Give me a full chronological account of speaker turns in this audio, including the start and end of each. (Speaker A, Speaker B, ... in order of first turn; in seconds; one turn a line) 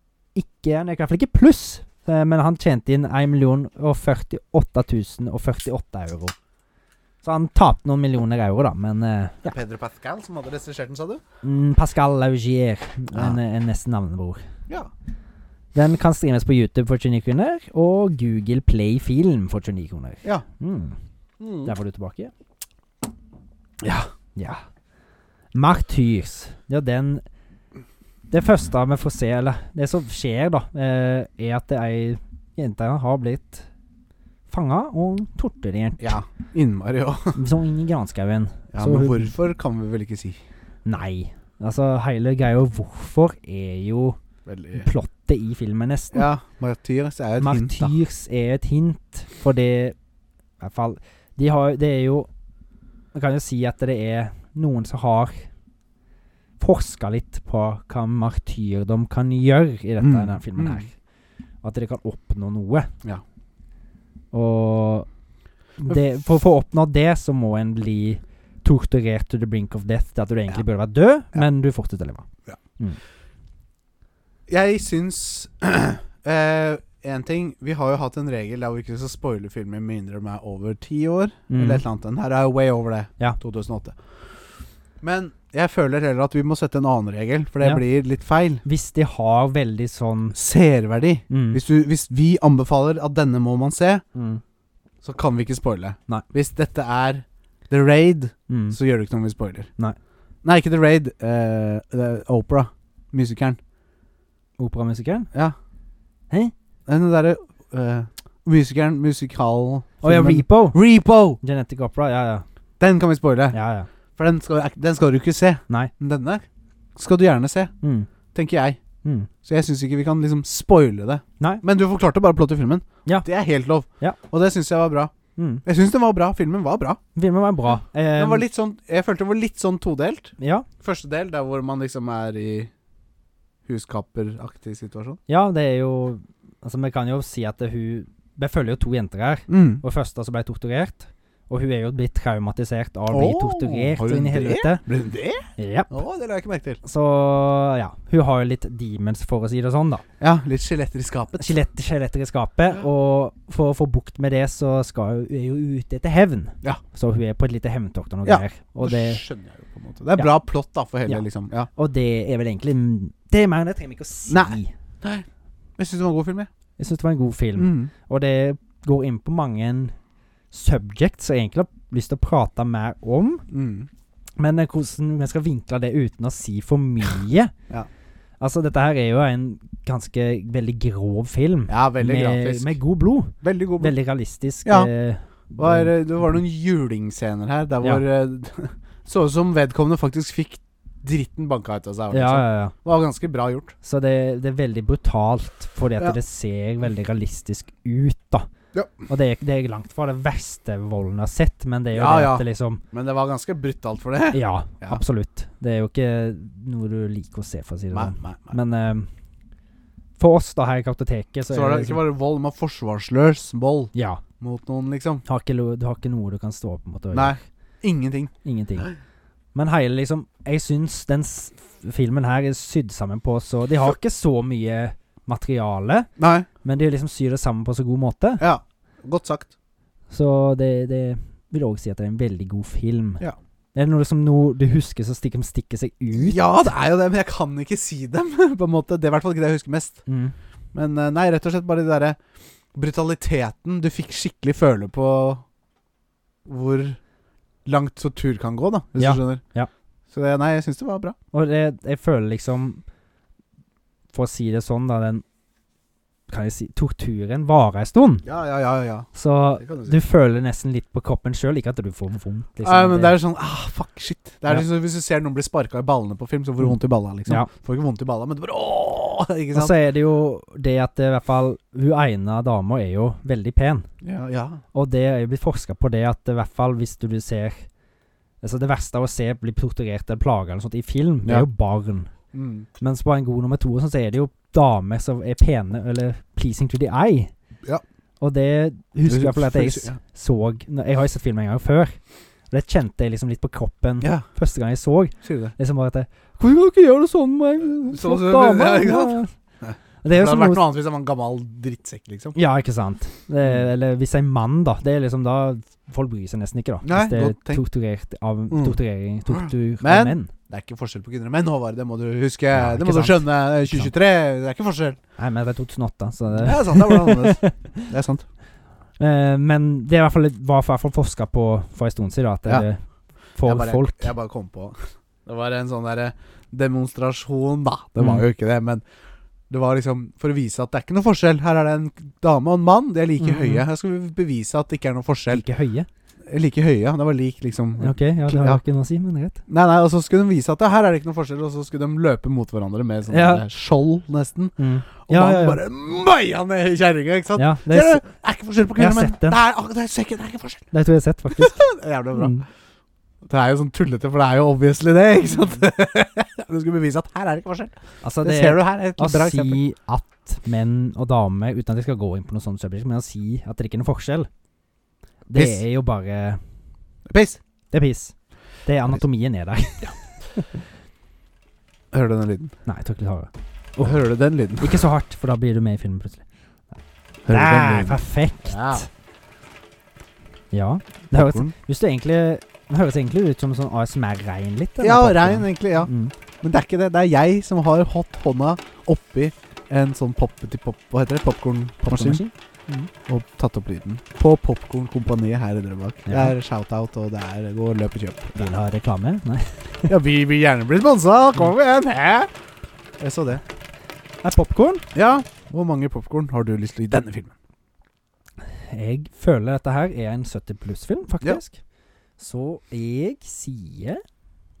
Speaker A: 0.3-6.3
Speaker A: 7.2-9.5
Speaker B: 9.4-11.2
Speaker A: 11.4-14.4
Speaker B: 13.1-13.4
Speaker A: 15.7-21.0
Speaker B: 21.4-21.7
Speaker A: 21.6-22.3
Speaker B: 23.8-24.1
Speaker A: 24.3-24.6
Speaker A: 25.5-27.2
Speaker A: 28.3-33.6
Speaker A: 34.5-36.2
Speaker B: 36.0-37.4
Speaker A: 37.3-39.3
Speaker B: 38.7-40.4
Speaker A: 40.8-44.2
Speaker B: 44.5-44.9
Speaker A: 44.8-46.3
Speaker B: 46.1-47.9
Speaker A: 47.4-49.9
Speaker A: 50.6-52.3
Speaker A: 53.1-55.5
Speaker A: 56.6-60.9
Speaker B: 60.0-60.9
Speaker A: 61.6-62.9
Speaker A: 64.3-65.1
Speaker A: 65.8-72.2
Speaker B: 74.5-84.0
Speaker A: 81.5-81.8
Speaker B: 85.0-88.6
Speaker A: 88.6-90.3
Speaker B: 90.3-94.0
Speaker A: 91.3-91.6
Speaker A: 94.1-94.4
Speaker B: 95.0-99.7
Speaker A: 98.5-98.8
Speaker B: 100.4-103.6
Speaker A: 104.6-105.3
Speaker B: 106.9-111.4
Speaker A: 110.0-110.8
Speaker A: 111.4-112.4
Speaker B: 112.8-113.6
Speaker A: 113.5-113.9
Speaker B: 114.2-116.4
Speaker B: 117.0-117.7
Speaker A: 117.8-118.1
Speaker B: 118.3-118.8
Speaker A: 119.0-119.3
Speaker B: 119.4-125.1
Speaker A: 125.3-125.6
Speaker B: 125.6-127.0
Speaker A: 127.1-128.4
Speaker B: 128.2-132.7
Speaker A: 130.4-130.7
Speaker B: 133.7-135.2
Speaker A: 135.3-144.8
Speaker B: 139.5-139.8
Speaker B: 143.1-146.8
Speaker A: 145.6-145.9
Speaker A: 146.8-150.0
Speaker B: 150.2-151.6
Speaker A: 151.4-159.2
Speaker B: 158.2-161.7
Speaker A: 161.7-164.7
Speaker B: 164.3-165.2
Speaker B: 165.8-166.5
Speaker A: 166.8-169.9
Speaker B: 167.6-167.9
Speaker A: 170.5-173.4
Speaker B: 173.5-173.9
Speaker A: 174.4-177.5
Speaker A: 178.4-186.4
Speaker B: 181.7-182.7
Speaker B: 183.4-183.9
Speaker B: 184.6-184.9
Speaker B: 185.6-193.7
Speaker A: 192.1-192.7
Speaker A: 193.8-198.5
Speaker B: 198.7-199.1
Speaker A: 199.1-202.8
Speaker B: 201.9-205.0
Speaker A: 204.3-209.1
Speaker B: 207.9-208.6
Speaker A: 210.2-212.0
Speaker B: 211.5-215.2
Speaker A: 213.9-214.2
Speaker A: 215.2-217.4
Speaker B: 217.1-218.9
Speaker A: 218.4-218.9
Speaker A: 219.5-226.1
Speaker B: 226.2-226.5
Speaker A: 226.6-228.4
Speaker B: 228.4-229.5
Speaker A: 230.1-233.2
Speaker A: 233.7-236.6
Speaker B: 236.1-240.0
Speaker A: 240.1-240.3
Speaker B: 240.7-242.2
Speaker B: 242.7-245.4
Speaker B: 246.4-247.0
Speaker B: 247.6-249.4
Speaker A: 249.0-249.7
Speaker B: 250.1-251.2
Speaker A: 251.3-252.8
Speaker A: 254.1-255.2
Speaker A: 256.3-258.2
Speaker B: 258.2-259.9
Speaker A: 259.1-263.2
Speaker B: 262.6-269.7
Speaker A: 269.5-273.9
Speaker B: 274.0-274.6
Speaker A: 274.7-277.6
Speaker A: 278.4-282.1
Speaker B: 282.3-282.7
Speaker A: 282.8-287.3
Speaker A: 288.2-299.3
Speaker B: 289.1-290.0
Speaker B: 294.0-294.2
Speaker B: 295.2-295.5
Speaker B: 297.9-302.4
Speaker A: 300.0-300.6
Speaker A: 302.3-310.3
Speaker B: 306.8-307.6
Speaker B: 308.5-308.8
Speaker B: 309.3-315.0
Speaker A: 312.5-313.9
Speaker A: 315.2-317.9
Speaker B: 316.3-318.2
Speaker A: 319.0-322.8
Speaker A: 323.3-324.1
Speaker B: 323.4-328.8
Speaker A: 328.0-328.2
Speaker B: 329.5-335.4
Speaker A: 333.2-333.6
Speaker A: 335.3-335.9
Speaker B: 336.2-338.6
Speaker A: 337.8-339.4
Speaker B: 339.5-350.6
Speaker A: 343.1-343.4
Speaker A: 344.6-345.6
Speaker A: 347.4-348.0
Speaker A: 348.8-349.4
Speaker A: 350.7-352.4
Speaker B: 351.3-352.4
Speaker B: 353.2-359.6
Speaker A: 358.0-364.3
Speaker A: 365.3-366.4
Speaker B: 365.3-365.6
Speaker B: 367.1-367.4
Speaker A: 367.7-370.6
Speaker B: 371.9-372.5
Speaker A: 372.6-374.0
Speaker B: 373.8-374.8
Speaker A: 374.6-376.2
Speaker B: 377.2-378.9
Speaker A: 377.3-378.9
Speaker A: 380.5-386.1
Speaker B: 381.1-381.5
Speaker B: 384.8-385.9
Speaker B: 386.4-398.5
Speaker A: 391.8-392.3
Speaker A: 396.1-396.3
Speaker A: 398.3-399.9
Speaker B: 399.9-402.3
Speaker B: 403.0-403.4
Speaker A: 404.2-404.8
Speaker B: 404.9-407.3
Speaker A: 408.7-411.6
Speaker A: 412.2-414.0